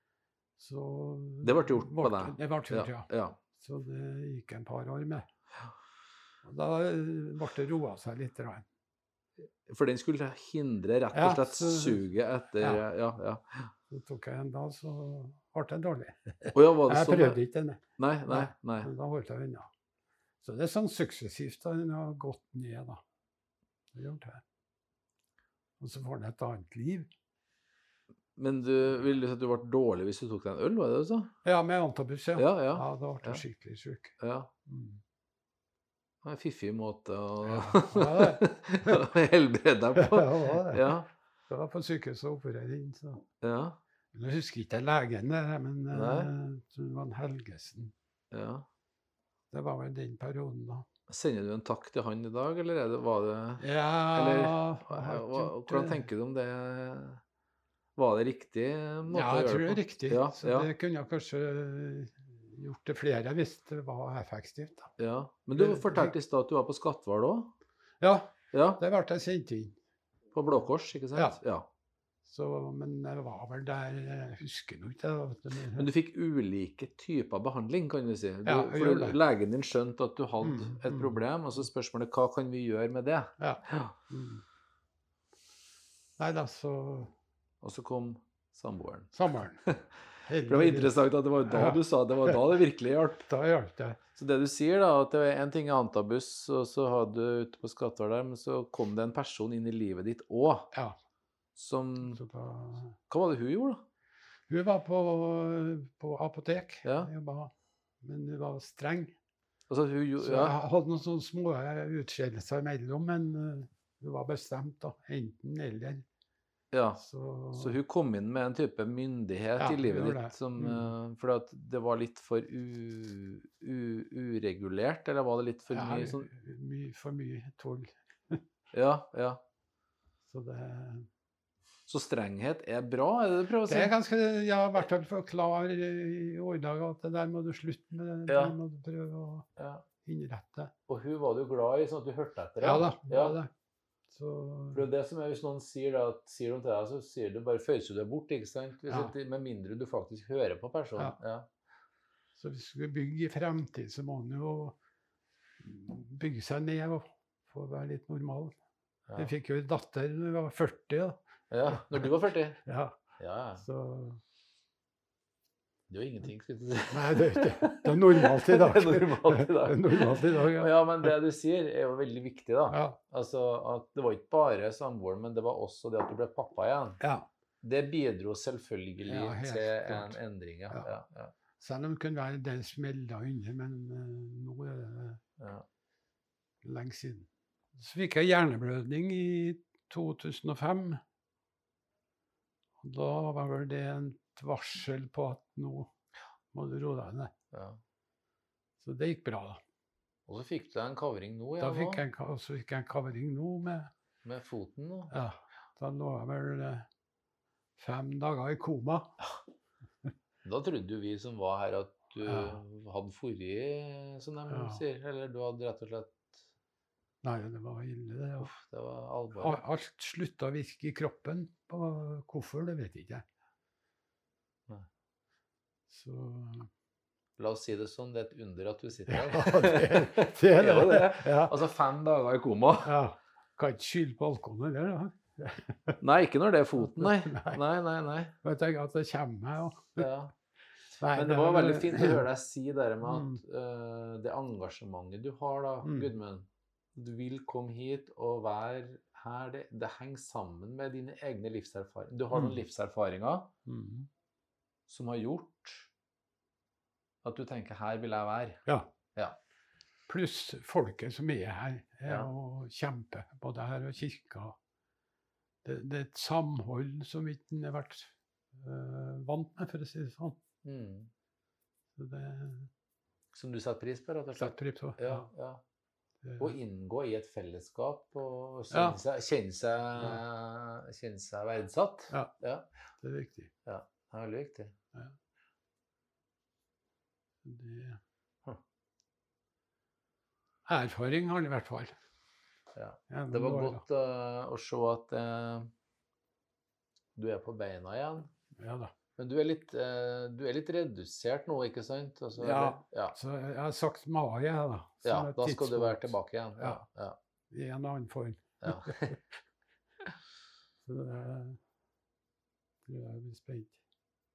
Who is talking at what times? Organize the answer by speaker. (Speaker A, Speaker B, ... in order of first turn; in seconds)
Speaker A: 0.6-5.2, 6.4-8.6, 11.1-12.1, 12.6-12.8, 13.9-19.7, 20.4-23.0, 23.9-24.4, 25.8-27.1, 31.4-34.1, 34.7-35.0, 37.4-39.1, 40.0-40.9, 41.5-43.2, 44.1-47.9, 49.5-50.9, 53.6-56.1, 59.1-64.9, 65.5-66.2, 68.0-69.8, 71.1-71.4, 72.2-75.9, 78.4-79.2, 80.4-81.2, 83.4-84.4, 86.2-87.1, 89.1-89.6, 90.3-92.4, 93.3-94.0, 102.1-102.9, 104.5-107.5, 108.0-109.1, 110.2-116.0, 117.0-117.8, 119.6-120.9, 125.7-128.4, 130.3-131.1, 133.6-139.4, 140.0-140.7, 142.6-143.5, 144.1-144.9, 148.9-149.1, 152.3-154.8, 155.6-158.5, 159.1-162.1, 162.6-162.9, 163.6-164.2, 166.9-171.1, 172.7-173.0, 177.0-177.3, 179.1-180.2, 181.6-185.2, 186.6-191.0, 192.8-195.9, 196.5-197.3, 198.8-199.6, 201.6-203.9, 205.1-206.8, 207.8-209.1, 212.2-212.6, 214.5-214.8, 217.2-218.5, 219.3-223.2, 225.9-226.7, 229.1-231.6, 232.8-236.0, 236.8-237.6, 238.4-240.1, 241.0-242.3, 243.0-243.4, 245.8-246.1, 252.3-252.6, 253.7-254.1, 260.1-264.6, 265.6-270.4, 271.9-272.7, 274.4-275.3, 276.2-276.6, 278.7-279.0, 280.0-280.2, 283.0-283.5, 287.4-288.0, 290.6-291.9, 293.1-293.8, 298.6-298.9, 302.4-306.8, 307.5-309.2, 310.8-311.6, 312.9-313.8
Speaker B: 1.4-3.4, 9.7-13.7, 16.5-17.4, 18.0-18.9, 28.4-31.3, 32.4-33.4, 34.2-34.5, 36.2-41.1, 43.4-43.8, 45.9-46.3, 48.3-48.6, 51.1-57.2, 58.0-60.7, 65.0-67.5, 68.5-68.8, 70.3-71.7, 75.7-83.9, 87.6-93.2, 94.2-100.7, 101.5-102.2, 103.1-103.8, 106.8-107.1, 109.7-110.5, 116.7-117.0, 117.5-126.3, 128.7-129.4, 131.9-133.9, 138.3-138.6, 139.6-139.8, 140.9-143.4, 144.7-151.5, 161.5-162.6, 163.2-163.6, 165.9-177.0, 177.6-181.3, 185.4-185.6, 197.5-197.8, 200.3-202.0, 204.2-205.1, 210.4-216.3, 218.4-219.6, 227.4-232.9, 236.0-238.3, 240.0-240.3, 241.1-253.5, 254.9-255.9, 257.2-258.6, 270.6-271.1, 273.3-275.6, 276.4-282.7, 283.6-284.7, 292.7-295.7, 297.1-298.3, 299.2-303.2, 305.0-307.2, 308.6-309.1